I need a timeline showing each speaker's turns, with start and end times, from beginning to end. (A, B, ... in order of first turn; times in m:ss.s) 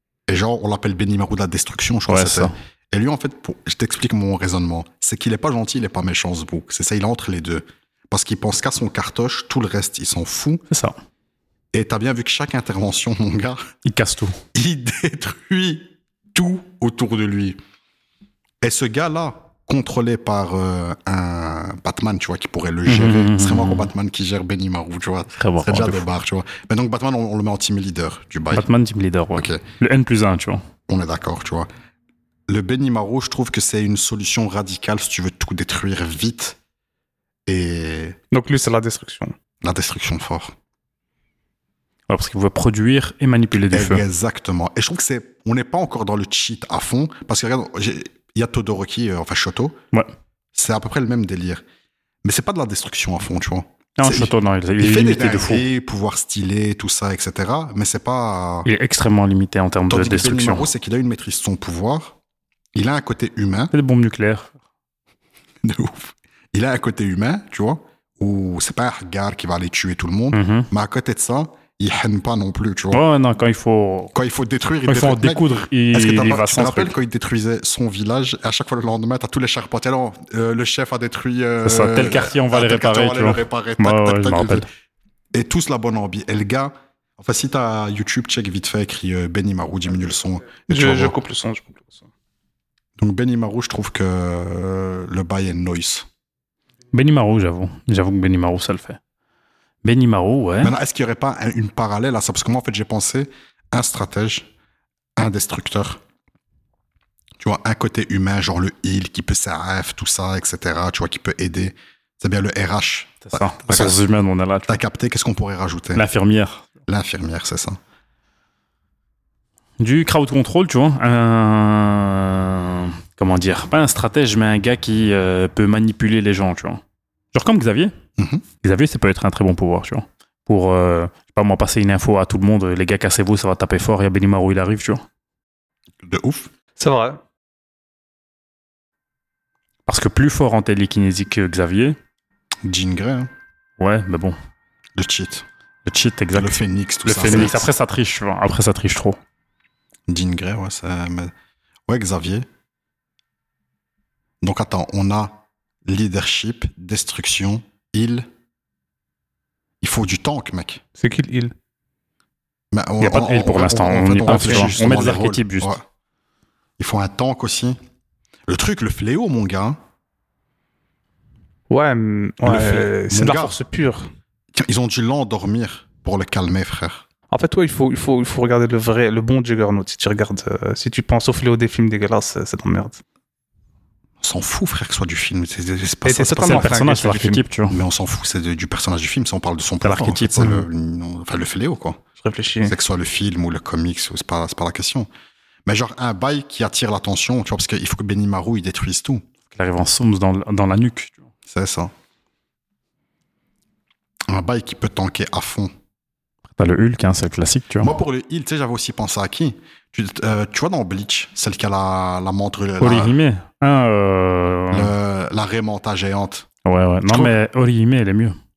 0:00.3-0:10.6 A
0:02.1-0:02.5 B
0:10.7-0:11.0 B
0:11.7-0:13.6 A
0:13.8-0:14.4 B
0:14.6-0:17.6 A
0:18.6-0:28.7 A
0:22.9-0:23.9 B
0:25.4-0:26.0 B
0:28.5-0:30.6 B
0:29.4-0:29.6 A
0:30.9-0:31.7 A
0:32.5-0:36.6 A
0:37.5-0:38.2 A
0:38.3-0:39.4 C
0:39.6-0:40.5 A
0:42.1-0:44.0 B
0:43.7-0:49.8 A
0:50.6-0:51.6 A
0:52.2-0:58.7 A
0:54.0-0:55.6 B
0:58.7-1:00.7 B
0:59.9-1:02.2 A
1:02.8-1:03.7 A
1:03.7-1:04.5 B
1:05.6-1:13.0 A
1:10.3-1:10.7 B
1:12.9-1:14.1 B
1:14.1-1:24.6 A
1:14.9-1:17.0 B
1:21.6-1:24.7 B
1:25.3-1:31.2 A
1:30.7-1:32.1 C
1:33.0-1:36.1 A
1:36.9-1:39.0 B
1:39.8-1:40.7 B
1:40.6-1:44.5 A
1:45.2-1:46.0 A
1:47.4-1:54.0 A
1:53.3-1:54.8 B
1:54.7-1:56.0 A
1:56.0-1:56.7 B
1:56.9-1:57.8 A
1:59.8-2:06.8 B
2:07.3-2:07.9 B
2:08.2-2:08.4 A
2:08.6-2:15.0 B
2:16.0-2:16.5 A
2:16.8-2:17.2 C
2:19.9-2:22.0 B
2:22.6-2:23.3 A
2:23.8-2:24.4 B
2:25.0-2:25.5 A
2:25.9-2:29.2 B
2:26.4-2:27.7 A
2:30.1-2:31.3 A
2:31.9-2:32.5 A
2:34.4-2:38.3 A
2:39.8-2:40.8 A
2:41.0-2:41.5 C
2:42.7-2:45.8 A
2:43.0-2:45.8 B
2:44.3-2:44.7 C
2:46.8-2:47.8 A
2:48.5-2:49.8 A
2:51.7-2:54.1 C
2:52.4-2:53.6 A
2:54.5-2:57.0 A
2:57.3-3:03.0 C
3:04.2-3:06.8 A
3:06.0-3:07.4 C
3:06.4-3:07.8 B
3:07.7-3:12.0 A
3:09.8-3:10.7 B
3:12.2-3:12.8 C
3:12.6-3:15.1 A
3:15.7-3:19.2 A
3:19.5-3:21.2 B
3:21.5-3:21.9 A
3:24.3-3:25.7 A
3:26.6-3:27.9 B
3:27.8-3:33.2 A
3:32.8-3:34.9 B
3:34.7-3:36.5 A
3:36.6-3:38.4 B
3:37.1-3:37.3 A